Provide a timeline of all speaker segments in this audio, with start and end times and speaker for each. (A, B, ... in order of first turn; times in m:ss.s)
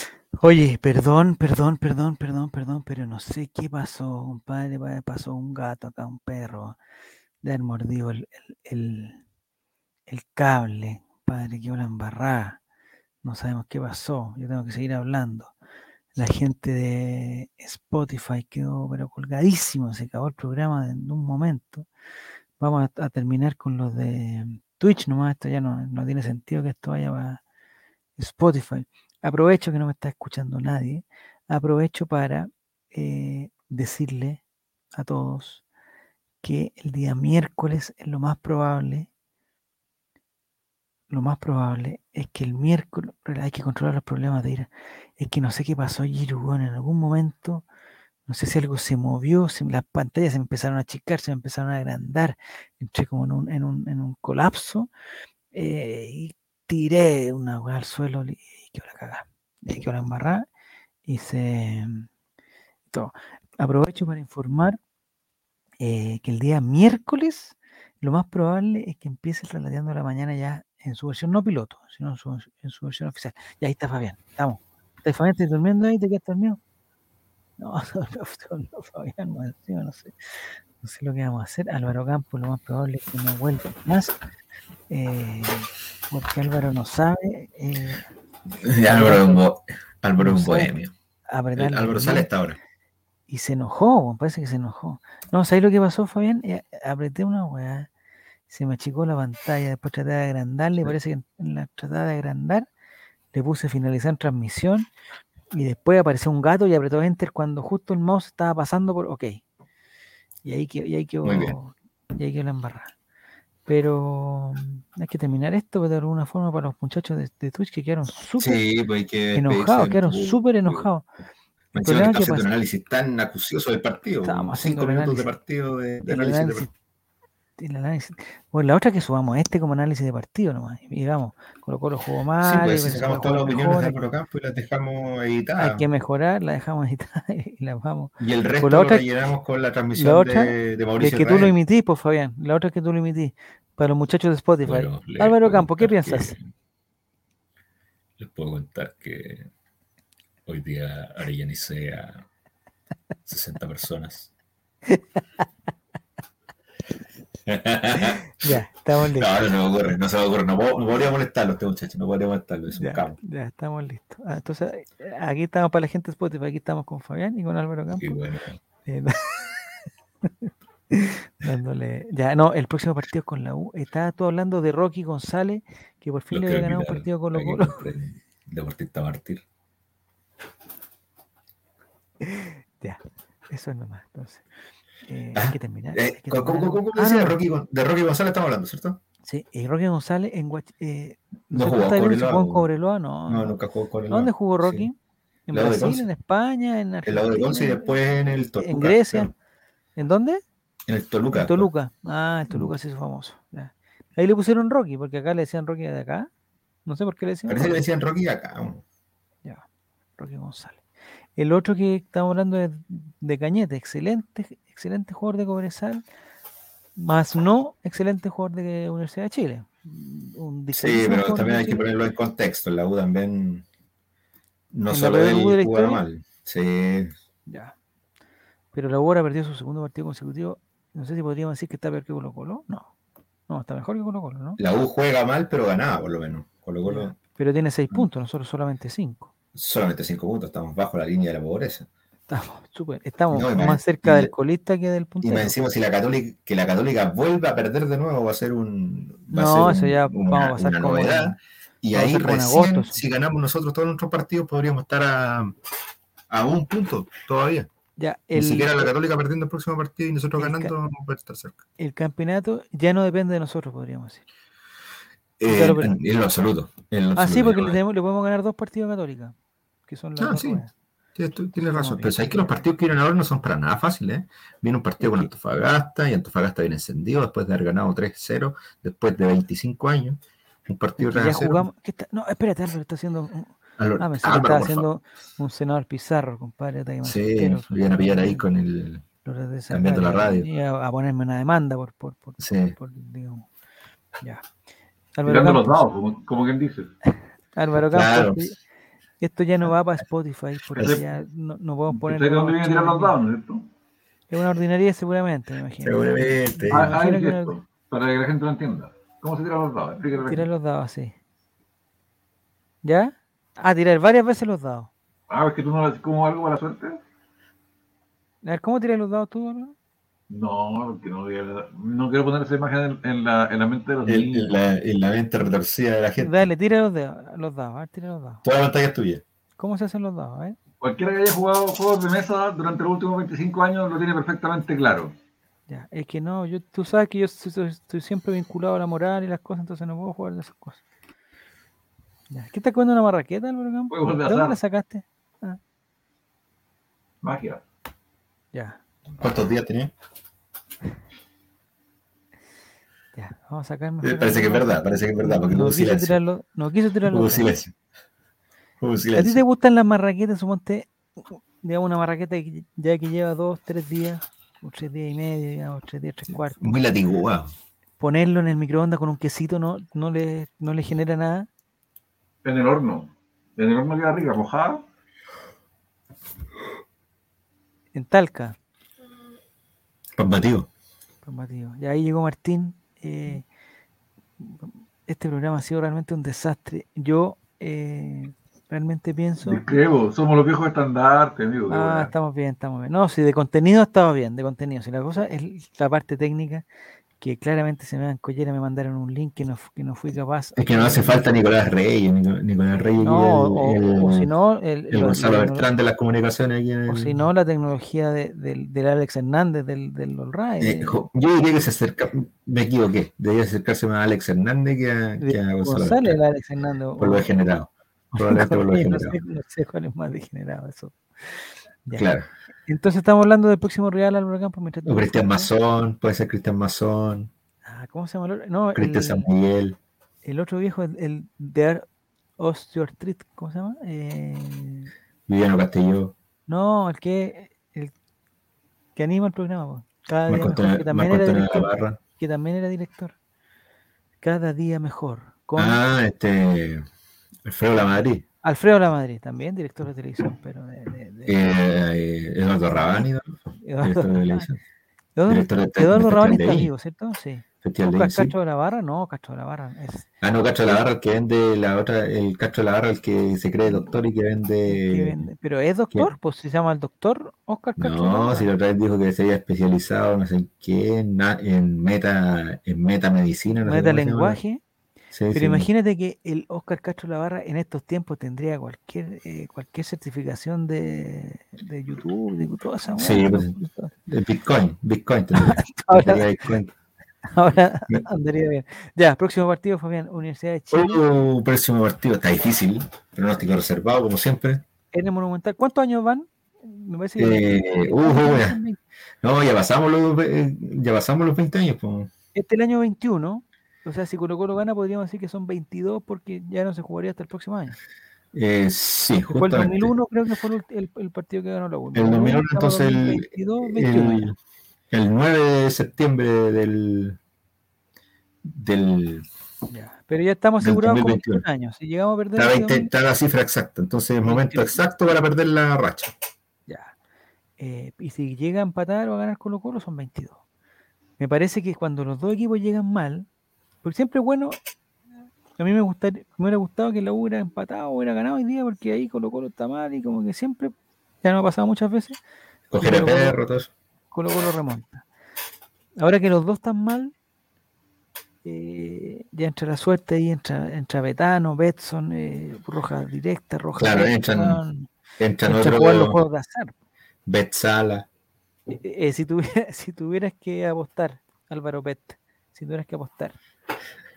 0:00.4-0:06.8 A
0:07.4-0:09.2 A
0:10.1-0:12.6 A
0:13.2-0:15.5 A
0:16.1-0:21.9 A
0:22.6-0:27.4 A
0:28.2-0:34.4 A
0:34.9-0:35.6 A
0:36.4-0:39.1 A
0:41.1-0:47.6 A
0:48.2-0:54.9 A
0:55.5-1:00.4 A
1:01.0-1:02.1 A
1:02.9-1:04.8 A
1:05.8-1:16.6 A
1:17.6-1:20.1 A
1:20.8-1:24.2 A
1:24.9-1:28.0 A
1:28.6-1:30.9 B
1:28.8-1:29.4 A
1:30.2-1:30.8 A
1:31.3-1:32.3 A
1:31.6-1:32.6 B
1:33.3-1:37.9 A
1:38.5-1:42.7 A
1:43.3-1:44.9 A
1:45.5-1:49.4 A
1:50.4-1:52.9 A
1:51.2-1:51.6 B
1:53.6-1:58.6 A
1:58.4-2:00.9 B
1:59.3-2:01.1 A
2:01.7-2:02.5 A
2:01.7-2:06.7 B
2:04.2-2:05.3 A
2:06.1-2:06.7 A
2:07.6-2:14.0 A
2:12.4-2:15.8 B
2:15.6-2:19.1 A
2:18.2-2:21.5 B
2:20.0-2:26.4 A
2:24.6-2:26.5 B
2:28.2-2:29.5 B
2:30.4-2:32.2 B
2:33.2-2:34.3 B
2:34.9-2:35.2 A
2:37.4-2:43.2 B
2:37.9-2:39.6 A
2:42.7-2:48.2 A
2:48.0-2:48.6 B
2:48.8-2:57.9 A
2:56.3-2:59.4 B
3:02.2-3:04.5 A
3:05.0-3:07.4 A
3:05.3-3:09.0 B
3:09.2-3:13.5 A
3:11.5-3:12.7 B
3:13.3-3:14.9 B
3:14.1-3:14.9 A
3:15.5-3:18.0 A
3:15.5-3:16.0 B
3:17.0-3:19.3 B
3:18.6-3:19.3 A
3:20.0-3:20.4 A
3:20.9-3:21.7 B
3:21.3-3:26.3 A
3:26.8-3:27.8 A
3:27.5-3:28.8 B
3:30.2-3:30.8 A
3:31.4-3:36.0 A
3:37.0-3:41.9 A
3:40.7-3:43.6 B
3:44.7-3:47.1 B
3:44.9-3:46.0 A
3:47.5-3:47.7 A
3:48.7-3:52.9 A
3:53.5-3:54.6 A
3:54.6-3:57.2 B
3:56.8-3:59.3 A
3:59.5-4:01.9 B
4:02.3-4:05.6 A
4:03.3-4:04.3 B
4:05.2-4:15.5 B
4:09.3-4:11.4 A
4:11.9-4:13.0 A
4:16.3-4:17.7 B
4:18.0-4:18.9 A
4:18.3-4:21.6 B
4:20.4-4:20.7 A
4:21.8-4:24.2 A
4:25.4-4:27.8 B
4:25.4-4:25.9 A
4:27.1-4:29.3 A
4:29.9-4:30.7 A
4:30.2-4:30.6 B
4:31.2-4:41.7 B
4:31.6-4:32.6 A
4:35.0-4:35.3 A
4:41.0-4:48.4 A
4:43.8-4:44.9 B
4:47.0-4:49.0 B
4:49.2-4:53.5 A
4:49.7-4:50.5 B
4:52.4-4:52.8 B
4:55.2-4:55.8 A
4:55.2-4:56.9 C
4:57.5-4:58.6 A
4:57.9-4:58.5 B
4:59.2-5:03.2 A
5:00.7-5:01.0 B
5:01.9-5:03.6 C
5:04.3-5:07.6 A
5:05.8-5:07.0 B
5:06.7-5:10.5 C
5:10.2-5:11.1 A
5:12.8-5:14.9 A
5:15.3-5:17.0 C
5:18.4-5:19.7 A
5:20.3-5:24.6 C
5:24.0-5:26.5 B
5:26.2-5:28.4 A
5:28.4-5:29.2 B
5:29.6-5:30.6 A
5:30.8-5:35.1 C
5:35.7-5:40.8 A
5:42.3-5:45.6 A
5:43.9-5:44.6 C
5:47.2-5:47.6 C
5:48.5-5:48.8 A
5:49.2-5:49.9 B
5:53.1-5:57.6 A
5:54.0-5:56.2 B
5:57.1-5:57.7 B
5:58.8-5:59.4 B
5:59.1-6:06.8 A
6:06.6-6:07.5 B
6:08.0-6:11.5 A
6:12.4-6:14.8 C
6:17.9-6:18.6 A
6:20.2-6:20.7 B
6:21.2-6:23.4 A
6:24.4-6:29.6 A
6:29.4-6:32.1 C
6:31.7-6:36.6 A
6:37.2-6:41.4 A
6:40.6-6:44.3 B
6:43.0-6:45.7 A
6:44.9-6:47.2 B
6:46.9-6:51.0 A
6:50.6-6:56.2 B
6:55.2-6:57.3 A
6:57.0-6:59.2 B
6:58.1-7:02.1 A
7:01.9-7:02.3 B
7:02.7-7:05.5 A
7:04.8-7:07.3 B
7:07.6-7:09.3 A
7:08.7-7:09.8 B
7:10.2-7:11.8 A
7:12.4-7:14.9 A
7:15.3-7:16.1 B
7:16.5-7:17.9 A
7:19.0-7:23.1 A
7:20.3-7:22.0 B
7:24.2-7:25.8 A
7:25.6-7:26.8 B
7:27.4-7:28.2 B
7:28.4-7:31.4 A
7:31.2-7:34.6 B
7:32.7-7:33.0 A
7:33.6-7:34.5 A
7:35.2-7:40.1 A
7:35.3-7:36.7 B
7:37.6-7:38.3 B
7:40.2-7:45.2 B
7:43.6-7:44.0 A
7:44.6-7:48.5 A
7:47.8-7:54.4 B
7:53.6-7:54.6 A
7:55.1-7:55.7 B
7:55.3-8:03.9 A
8:03.0-8:03.6 B
8:04.1-8:06.7 B
8:05.4-8:06.2 A
8:07.3-8:11.0 A
8:10.7-8:14.6 B
8:14.9-8:18.8 A
8:17.2-8:18.6 B
8:19.2-8:22.1 B
8:22.3-8:27.8 A
8:28.3-8:29.9 B
8:29.3-8:34.3 A
8:31.9-8:34.4 B
8:34.9-8:37.2 B
8:38.4-8:39.2 B
8:39.7-8:42.9 A
8:40.6-8:41.4 B
8:42.4-8:46.1 B
8:44.2-8:44.8 A
8:46.7-8:46.9 A
8:47.6-8:50.4 A
8:51.2-8:53.3 A
8:53.8-8:54.6 A
8:55.6-9:02.2 A
9:02.7-9:03.7 B
9:02.8-9:03.4 A
9:04.1-9:05.0 A
9:06.0-9:07.1 A
9:08.4-9:14.9 A
9:13.8-9:14.6 B
9:15.2-9:16.2 B
9:15.4-9:16.7 A
9:17.2-9:18.1 B
9:18.7-9:23.4 A